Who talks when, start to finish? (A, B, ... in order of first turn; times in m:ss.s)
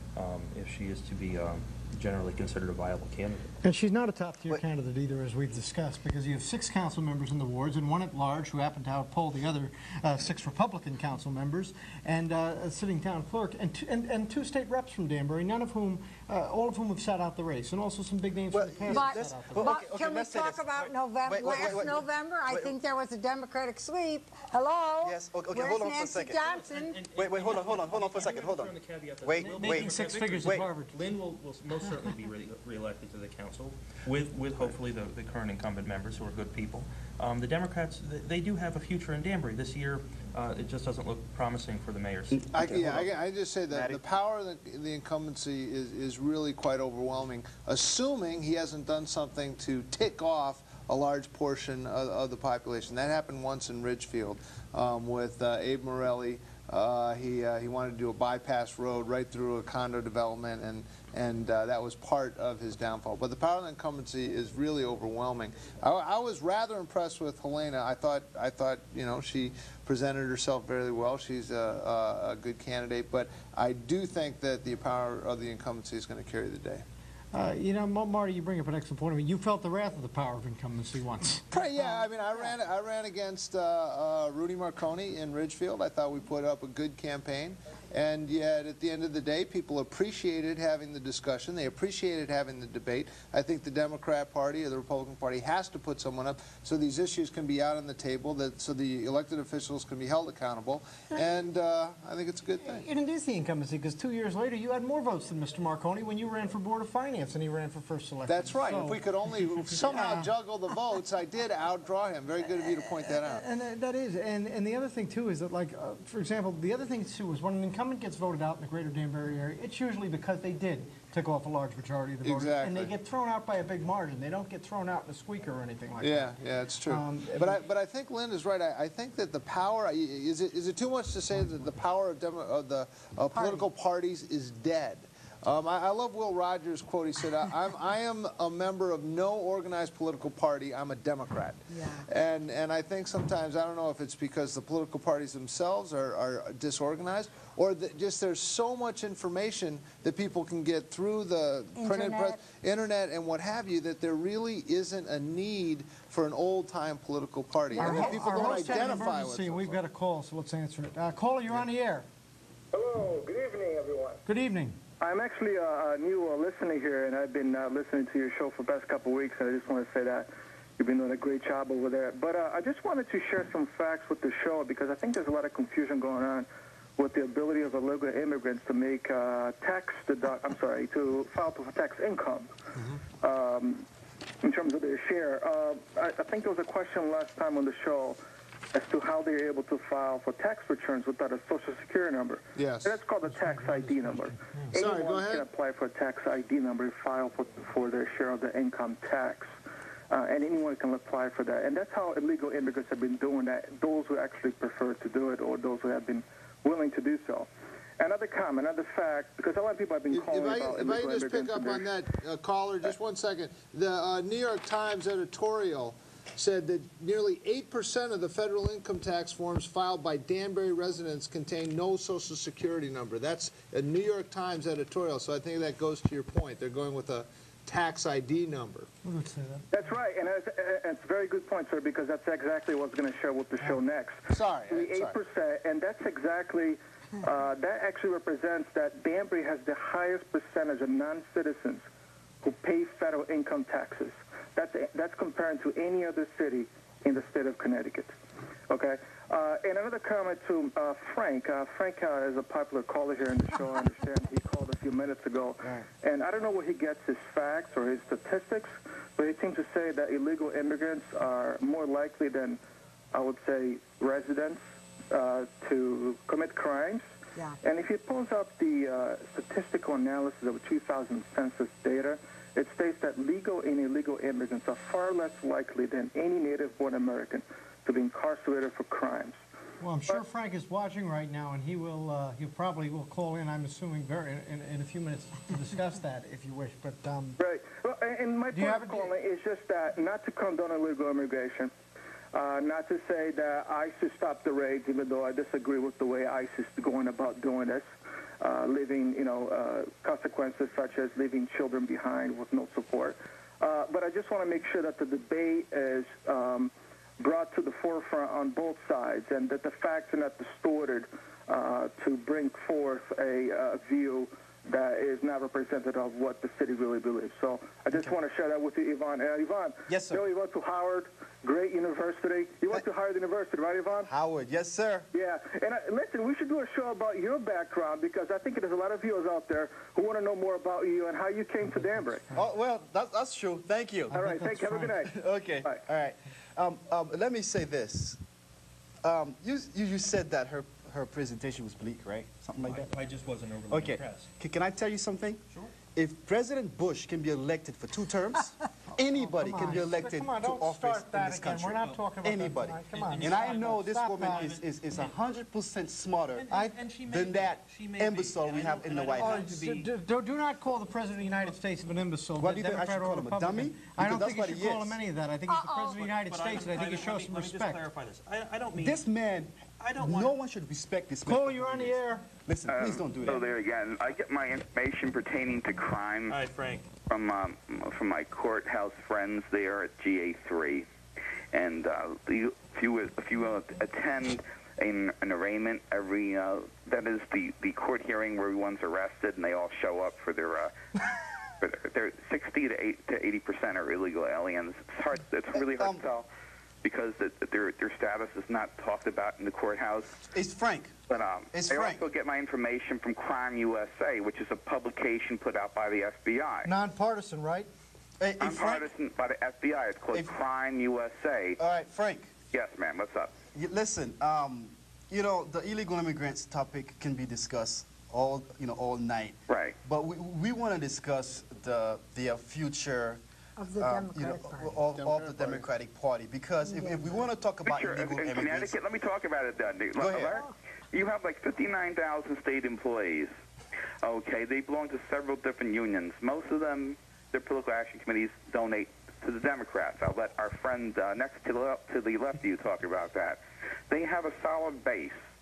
0:00.2-0:03.5 A
0:03.6-0:19.6 B
0:18.5-0:22.7 C
0:18.9-0:27.0 D
0:25.0-0:26.4 C
0:26.4-0:43.1 A
0:27.1-0:30.7 C
0:29.4-0:31.0 B
0:42.3-0:43.0 C
0:42.5-1:16.8 E
0:43.7-0:44.0 C
1:17.3-1:22.5 B
1:21.5-1:42.8 E
1:42.6-1:50.3 B
1:48.2-1:53.4 E
1:53.1-2:06.3 B
2:02.2-2:02.9 E
2:06.0-2:39.8 E
2:06.8-2:07.6 B
2:13.3-2:13.7 D
2:21.7-2:22.1 D
2:31.7-2:32.4 D
2:37.7-2:42.0 B
2:37.8-2:38.1 D
2:42.7-2:44.2 F
2:44.2-2:44.8 B
2:45.0-3:02.5 F
3:03.2-3:03.8 F
3:04.4-3:08.2 F
3:08.7-3:19.5 F
3:12.6-3:13.0 E
3:13.2-3:14.8 B
3:14.7-3:15.4 E
3:20.1-3:27.5 F
3:28.0-3:31.9 F
3:30.1-3:48.9 E
3:49.0-3:50.0 B
3:49.7-4:01.8 F
3:54.3-3:55.2 E
4:02.4-4:08.1 F
4:08.7-4:22.6 F
4:23.1-4:27.0 F
4:27.6-4:39.4 F
4:39.8-4:47.4 B
4:47.4-4:51.7 F
4:48.5-4:49.2 B
4:52.3-4:57.9 F
4:58.4-5:24.1 F
5:19.9-5:20.2 C
5:24.0-5:25.1 C
5:25.1-5:32.2 F
5:31.6-5:32.4 B
5:32.3-5:34.2 C
5:34.1-5:35.0 B
5:34.1-5:35.8 F
5:35.0-5:38.2 C
5:39.0-5:42.9 C
5:42.6-5:44.3 A
5:43.7-5:45.4 C
5:45.5-5:45.7 A
5:45.9-5:56.5 C
5:49.0-5:55.1 B
5:52.9-5:54.6 A
5:56.4-5:59.9 A
5:56.5-5:57.0 B
5:57.0-5:59.5 C
5:59.2-6:07.8 B
6:02.4-6:05.0 C
6:05.5-6:06.1 D
6:05.9-6:09.0 A
6:08.7-6:13.5 C
6:09.8-6:10.3 A
6:11.2-6:12.2 B
6:12.7-6:16.4 G
6:16.3-6:16.9 A
6:17.0-6:20.8 G
6:21.5-6:30.7 G
6:31.6-6:36.3 G
6:35.5-6:36.0 C
6:36.8-6:40.2 G
6:40.3-6:42.0 C
6:41.1-6:46.7 G
6:46.6-6:47.7 B
6:48.2-6:48.9 C
6:48.4-6:51.6 G
6:51.6-6:52.3 C
6:52.5-6:53.3 G
6:53.5-7:03.2 C
6:59.5-6:59.8 G
7:03.6-7:04.8 D
7:03.8-7:08.8 C
7:04.9-7:05.7 E
7:06.6-7:07.2 D
7:07.6-7:13.3 G
7:10.0-7:10.4 C
7:14.0-7:23.4 G
7:23.9-7:25.2 G